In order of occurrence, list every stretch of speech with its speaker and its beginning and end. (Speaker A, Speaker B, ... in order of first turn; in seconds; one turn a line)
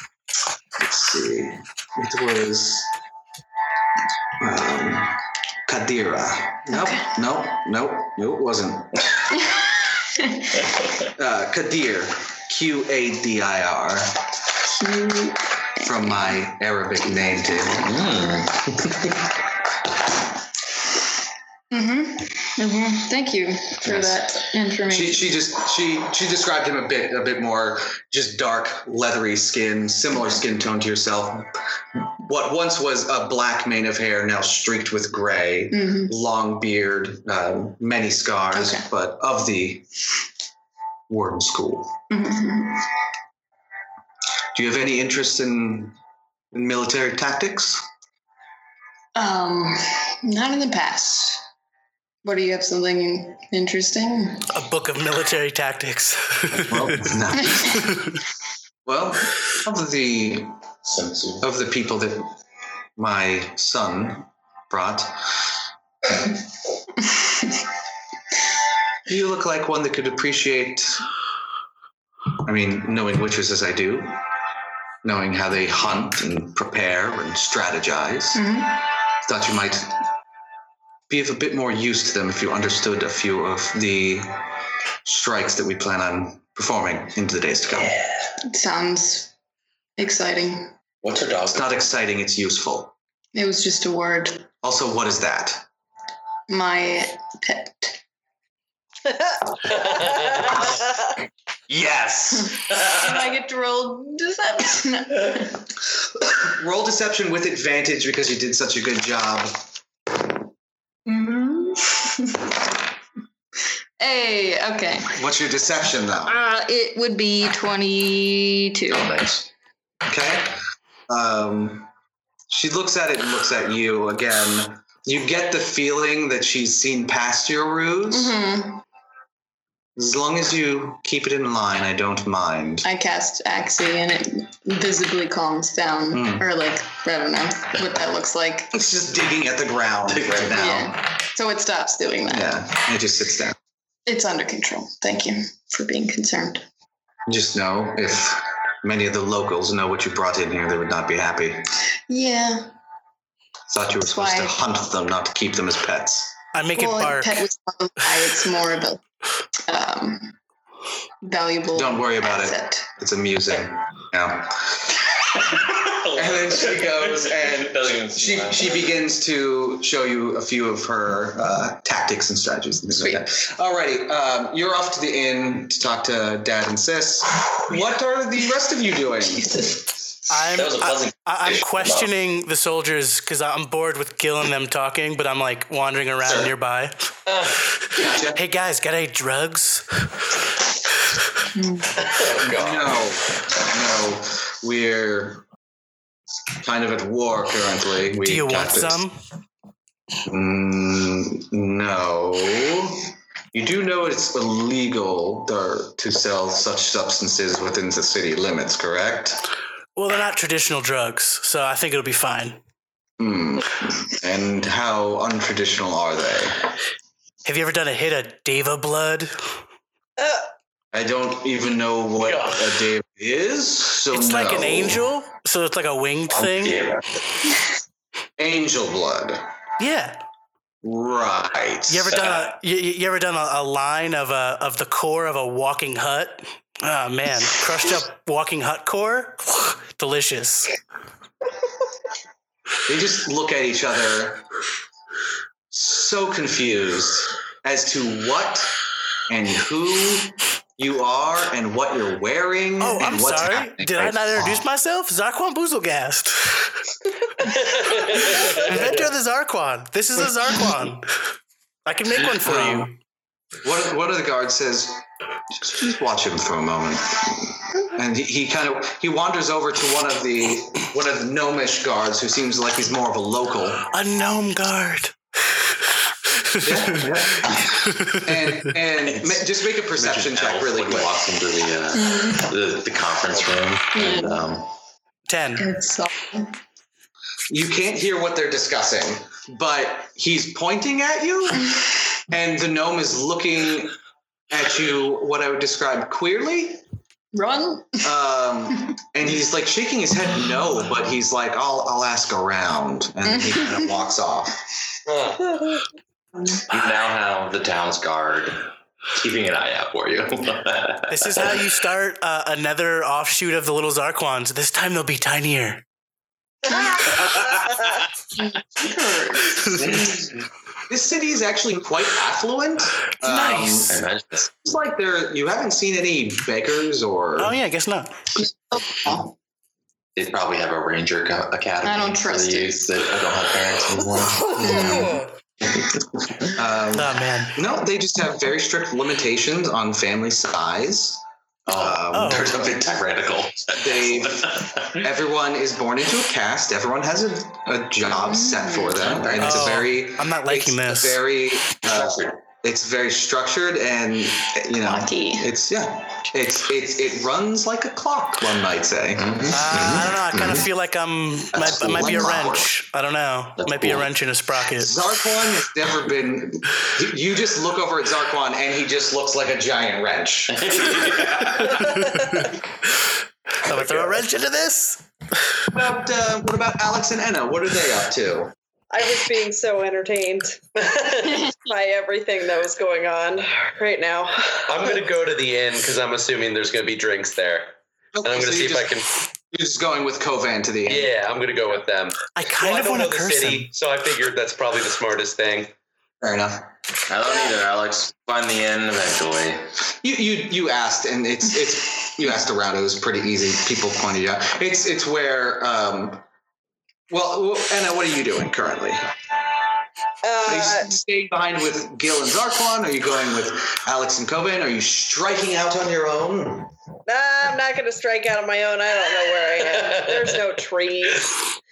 Speaker A: 0.8-2.9
Speaker A: 4.4-9.1
Speaker B: 6.7-7.1
Speaker A: 11.2-14.2
Speaker B: 14.7-16.1
Speaker A: 15.8-17.9
Speaker C: 17.8-19.1
Speaker B: 21.7-25.3
Speaker A: 24.9-39.9
Speaker B: 35.7-36.1
Speaker B: 38.5-38.8
Speaker A: 41.1-42.0
Speaker B: 42.1-42.9
Speaker A: 44.5-46.0
Speaker A: 46.5-47.8
Speaker B: 49.1-51.4
Speaker B: 52.2-54.5
Speaker D: 54.5-57.2
Speaker A: 56.6-57.9
Speaker D: 57.7-58.1
Speaker A: 58.9-60.5
Speaker C: 60.8-61.5
Speaker A: 61.4-62.3
Speaker A: 63.0-65.3
Speaker A: 69.1-71.0
Speaker A: 72.4-74.2
Speaker A: 75.0-78.4
Speaker B: 78.3-78.8
Speaker A: 79.2-80.0
Speaker A: 81.1-84.3
Speaker A: 85.0-87.9
Speaker C: 87.7-88.3
Speaker B: 88.4-89.3
Speaker B: 90.0-90.7
Speaker C: 91.0-91.8
Speaker A: 91.5-92.9
Speaker B: 93.3-94.5
Speaker A: 94.6-95.7
Speaker B: 96.5-98.0
Speaker A: 101.7-102.4
Speaker B: 102.5-105.7
Speaker C: 102.7-103.2
Speaker A: 106.4-109.7
Speaker B: 111.0-112.6
Speaker B: 114.0-115.1
Speaker A: 115.1-116.4
Speaker B: 116.2-119.1
Speaker C: 118.9-119.5
Speaker A: 120.1-121.9
Speaker A: 122.5-128.3
Speaker B: 128.1-128.8
Speaker A: 129.9-132.8
Speaker B: 132.8-138.7
Speaker A: 136.1-136.5
Speaker A: 138.7-141.0
Speaker C: 140.1-140.6
Speaker B: 140.5-142.6
Speaker A: 142.3-143.6
Speaker B: 144.1-146.7
Speaker A: 147.3-151.7
Speaker B: 152.1-152.7
Speaker A: 153.7-156.3
Speaker B: 154.0-154.6
Speaker D: 156.5-157.5
Speaker B: 156.7-159.0
Speaker B: 159.7-160.3
Speaker B: 161.2-162.9
Speaker A: 161.7-164.8
Speaker C: 165.5-169.0
Speaker A: 166.1-179.7
Speaker B: 179.3-179.8
Speaker D: 180.3-187.1
Speaker C: 180.3-182.1
Speaker C: 186.2-186.5
Speaker D: 187.9-189.8
Speaker A: 188.0-188.4
Speaker B: 191.5-191.9
Speaker E: 192.0-193.0
Speaker A: 192.3-195.4
Speaker A: 196.6-199.0
Speaker D: 198.2-199.2
Speaker A: 200.3-209.4
Speaker D: 209.9-212.6
Speaker A: 213.2-216.6
Speaker D: 217.4-219.3
Speaker F: 220.2-220.4
Speaker A: 220.9-225.0
Speaker D: 224.1-226.8
Speaker C: 226.3-227.1
Speaker A: 228.4-229.4
Speaker D: 229.8-230.2
Speaker A: 230.8-232.2
Speaker D: 231.9-240.8
Speaker C: 232.1-232.5
Speaker A: 242.9-244.4
Speaker A: 245.7-248.7
Speaker A: 249.3-254.6
Speaker D: 252.8-256.7
Speaker E: 257.5-258.9
Speaker D: 257.9-261.1
Speaker D: 261.9-262.9
Speaker A: 262.4-262.9
Speaker A: 263.6-265.0
Speaker A: 265.6-273.9
Speaker D: 273.9-275.1
Speaker D: 276.3-277.0
Speaker A: 276.6-281.1
Speaker D: 277.9-278.3
Speaker C: 279.1-284.7
Speaker B: 282.0-282.4
Speaker B: 283.9-284.4
Speaker D: 285.3-285.6
Speaker B: 285.6-286.5
Speaker A: 287.5-291.7
Speaker A: 292.3-293.9
Speaker A: 294.5-296.8
Speaker B: 297.3-298.1
Speaker A: 298.0-304.6
Speaker B: 303.4-303.7
Speaker E: 305.1-305.4
Speaker F: 305.5-305.8
Speaker C: 306.7-311.6
Speaker D: 311.1-315.8
Speaker B: 316.7-317.3
Speaker C: 317.2-318.0
Speaker B: 318.5-319.8
Speaker C: 319.7-320.4
Speaker A: 320.9-323.9
Speaker D: 323.2-323.9
Speaker C: 323.9-324.5
Speaker A: 324.6-327.5
Speaker D: 327.4-328.3
Speaker B: 328.7-329.2
Speaker C: 330.1-335.0
Speaker B: 331.8-332.8
Speaker A: 334.6-335.2
Speaker B: 334.6-335.1
Speaker A: 336.5-342.7
Speaker D: 336.9-337.6
Speaker C: 341.7-345.1
Speaker D: 342.1-342.6
Speaker A: 343.7-360.0
Speaker B: 348.2-349.0
Speaker C: 349.0-349.9
Speaker D: 349.4-351.2
Speaker C: 351.8-352.4
Speaker B: 354.8-355.5
Speaker C: 359.1-360.6
Speaker D: 359.5-365.0
Speaker A: 361.5-362.7
Speaker C: 363.6-364.1
Speaker A: 364.8-371.2
Speaker C: 370.5-372.0
Speaker D: 371.8-372.5
Speaker D: 373.6-375.0
Speaker A: 373.7-374.1
Speaker A: 375.7-378.5
Speaker F: 378.9-384.9
Speaker E: 384.7-389.1
Speaker A: 388.1-389.0
Speaker A: 389.5-391.1
Speaker E: 390.9-395.7
Speaker D: 392.3-393.7
Speaker A: 396.2-396.7
Speaker C: 397.1-399.7
Speaker A: 400.0-406.2
Speaker A: 407.1-409.0
Speaker F: 410.2-410.9
Speaker A: 410.4-416.7
Speaker F: 417.1-421.3
Speaker E: 419.8-420.3